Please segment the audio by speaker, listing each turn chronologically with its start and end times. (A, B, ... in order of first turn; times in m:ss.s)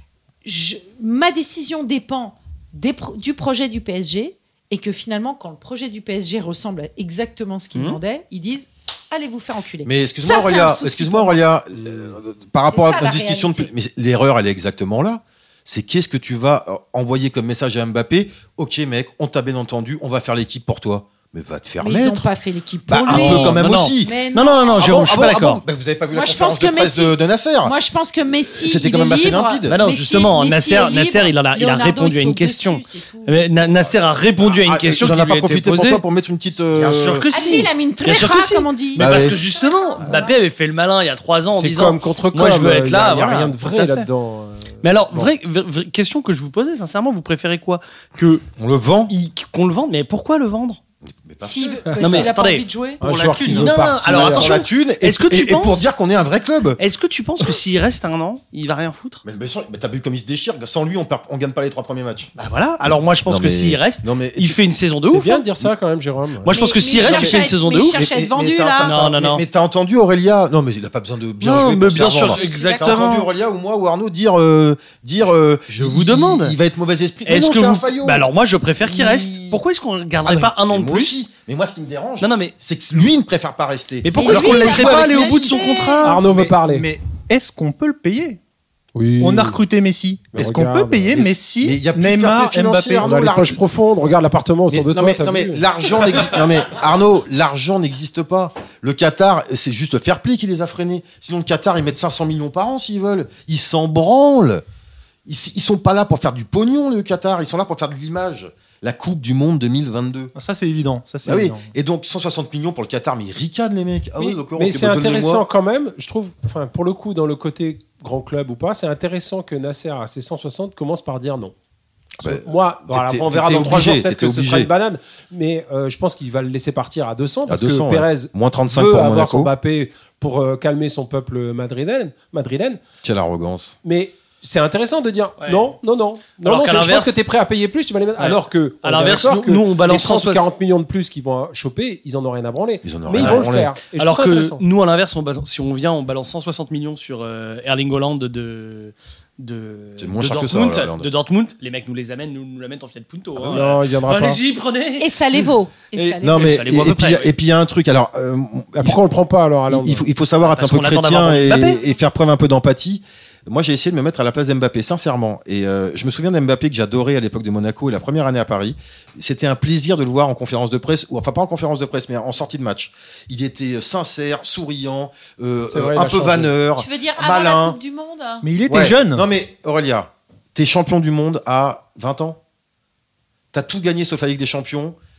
0:00.4-0:11.4 A
0:09.8-0:22.3 B
0:12.7-0:13.7 A
0:21.8-0:25.2 A
0:22.9-0:24.2 B
0:23.1-0:25.6 C
0:24.8-0:27.7 B
0:26.1-0:33.5 A
0:28.3-0:29.8 B
0:29.7-0:36.0 C
0:33.8-0:37.3 B
0:36.7-0:44.1 C
0:37.3-0:40.4 A
0:39.0-0:39.4 B
0:41.5-0:45.3 D
0:44.8-0:48.4 C
0:48.6-0:49.1 B
0:49.1-0:50.8 C
0:51.1-0:52.3 B
0:51.4-0:53.0 A
0:52.0-0:52.7 C
0:53.0-0:56.8 B
0:53.0-0:53.8 E
0:53.4-0:54.6 D
0:53.4-0:56.0 C
0:56.8-0:59.2 C
0:59.2-1:02.3 B
1:02.4-1:05.4 C
1:03.3-1:04.6 B
1:05.1-1:06.5 D
1:06.4-1:08.0 C
1:06.5-1:09.0 A
1:06.9-1:18.3 B
1:08.8-1:09.4 C
1:11.4-1:13.3 C
1:12.1-1:13.2 A
1:15.7-1:16.6 C
1:17.3-1:21.2 C
1:18.8-1:19.6 B
1:20.2-1:25.6 B
1:22.2-1:22.5 C
1:24.0-1:26.2 C
1:24.2-1:26.1 A
1:26.0-1:26.9 D
1:26.1-1:28.4 E
1:29.0-1:29.6 D
1:29.2-1:33.1 E
1:30.3-1:31.2 D
1:31.1-1:33.6 B
1:33.0-1:35.6 D
1:34.7-1:44.6 B
1:45.3-1:50.3 B
1:50.3-1:51.7 E
1:51.2-1:55.4 B
1:54.2-2:01.5 D
2:02.2-2:12.8 D
2:02.2-2:04.7 B
2:07.5-2:09.5 B
2:13.0-2:13.8 B
2:13.8-2:24.6 D
2:15.4-2:15.7 C
2:16.4-2:17.2 C
2:18.2-2:20.5 C
2:22.8-2:23.8 B
2:23.2-2:35.1 C
2:30.0-2:31.1 B
2:33.5-2:34.4 D
2:35.0-2:36.5 A
2:36.0-2:37.3 C
2:36.2-2:39.0 B
2:38.8-2:40.0 D
2:39.7-2:57.8 B
2:40.4-2:41.8 C
2:55.7-2:56.5 D
2:56.8-2:58.5 A
2:58.4-2:59.3 E
2:58.7-3:02.4 B
3:03.5-3:05.0 B